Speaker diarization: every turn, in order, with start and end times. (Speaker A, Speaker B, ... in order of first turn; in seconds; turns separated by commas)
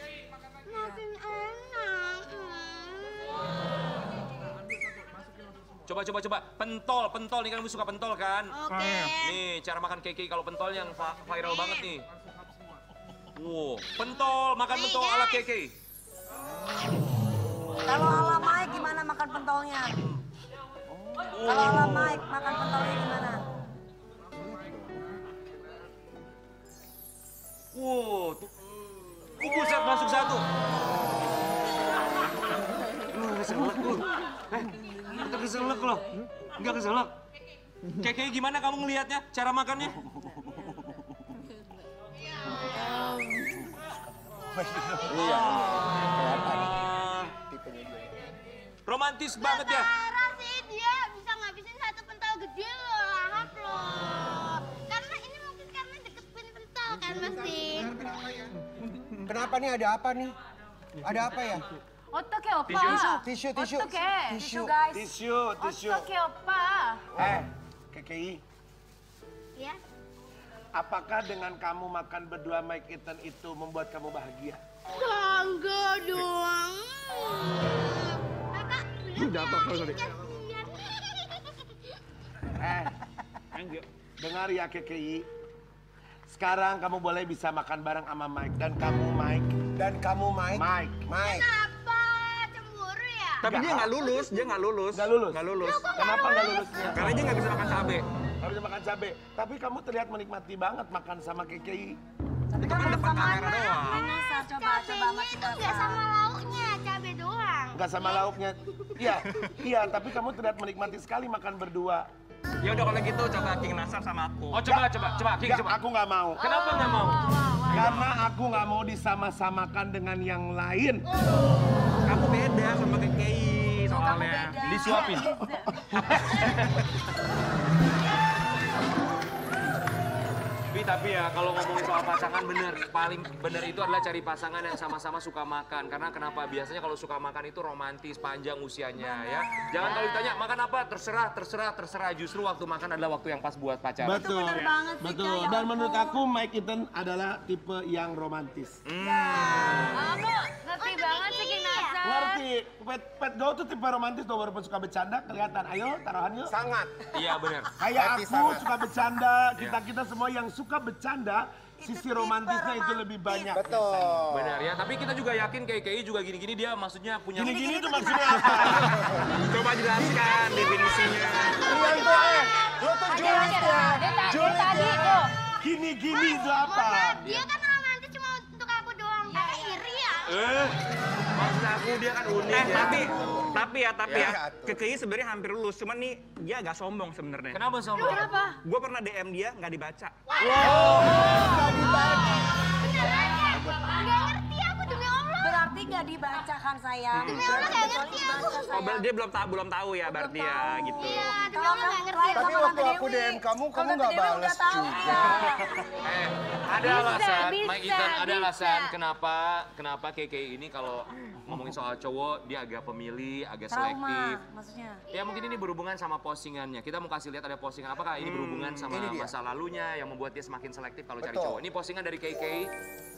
Speaker A: 0.7-4.2, Speaker B: 5.9-8.5, Speaker A: 8.5-9.4, Speaker B: 9.2-12.0, Speaker A: 11.5-11.8, Speaker B: 13.3-15.7, Speaker A: 14.7-15.4, Speaker C: 17.9-20.0, Speaker B: 21.3-22.2, Speaker C: 21.4-23.4, Speaker B: 27.7-28.5, Speaker B: 29.4-30.4, Speaker B: 33.1-36.0, Speaker B: 36.5-37.1, Speaker B: 38.0-40.0, Speaker A: 42.2-43.4, Speaker D: 44.5-48.3, Speaker B: 45.1-46.1, Speaker B: 46.7-47.3, Speaker B: 48.8-49.9, Speaker A: 49.4-58.0, Speaker D: 58.0-58.5, Speaker D: 59.2-60.4, Speaker D: 61.0-61.6, Speaker E: 62.1-65.0, Speaker B: 62.6-63.0, Speaker D: 62.7-64.8, Speaker F: 64.9-66.1, Speaker E: 65.6-67.0, Speaker F: 67.2-68.4, Speaker A: 69.5-69.8, Speaker F: 70.7-74.6, Speaker A: 74.9-81.7, Speaker G: 79.2-80.2, Speaker F: 82.5-82.9, Speaker G: 83.5-83.8, Speaker F: 84.2-85.2, Speaker F: 86.3-91.0, Speaker D: 89.7-91.5, Speaker A: 91.2-94.3, Speaker G: 93.4-95.8, Speaker F: 93.5-93.9, Speaker F: 94.9-97.4, Speaker A: 95.6-97.7, Speaker G: 96.9-98.0, Speaker F: 98.3-102.0, Speaker C: 102.5-106.0, Speaker G: 102.6-104.2, Speaker A: 104.2-109.0, Speaker F: 107.7-112.1, Speaker G: 112.6-114.6, Speaker B: 114.5-115.8, Speaker F: 115.4-116.4, Speaker B: 116.4-118.0, Speaker E: 116.4-117.8, Speaker F: 117.7-121.0, Speaker G: 122.0-125.2, Speaker E: 123.9-125.8, Speaker B: 124.6-125.3, Speaker B: 125.9-126.8, Speaker B: 130.7-144.3, Speaker C: 138.9-140.4, Speaker F: 144.0-148.8, Speaker C: 144.2-146.2, Speaker B: 148.8-150.1, Speaker C: 149.0-149.9, Speaker E: 149.9-152.4, Speaker A: 150.1-152.0, Speaker F: 152.0-156.5, Speaker D: 156.4-157.1, Speaker B: 157.1-157.7, Speaker F: 157.8-164.2, Speaker D: 157.9-158.7, Speaker G: 162.2-162.7, Speaker D: 163.5-164.7, Speaker B: 164.3-167.7, Speaker F: 167.3-169.0, Speaker A: 167.7-168.3, Speaker B: 168.4-169.0, Speaker G: 168.4-171.9, Speaker D: 168.8-169.3, Speaker A: 170.2-173.9, Speaker D: 171.6-175.2, Speaker E: 173.1-175.3, Speaker F: 175.6-177.2, Speaker A: 176.1-180.4, Speaker B: 177.2-177.5, Speaker E: 179.3-179.9, Speaker B: 180.3-180.7, Speaker B: 181.3-183.2, Speaker D: 182.4-184.9, Speaker G: 182.5-187.6, Speaker B: 184.0-184.4, Speaker B: 187.5-188.3, Speaker A: 188.0-188.5, Speaker E: 188.0-188.6, Speaker G: 188.6-190.2, Speaker A: 190.3-195.8, Speaker D: 190.4-192.6, Speaker B: 190.5-191.6, Speaker C: 195.4-199.1, Speaker G: 197.1-197.9, Speaker A: 197.2-198.9, Speaker G: 198.6-201.3, Speaker C: 200.0-205.6, Speaker A: 200.9-202.8, Speaker D: 202.3-205.8, Speaker B: 205.8-214.4, Speaker E: 206.8-208.9, Speaker C: 213.7-215.0, Speaker B: 215.1-222.7, Speaker G: 218.2-218.9, Speaker D: 218.9-219.3, Speaker D: 221.2-221.6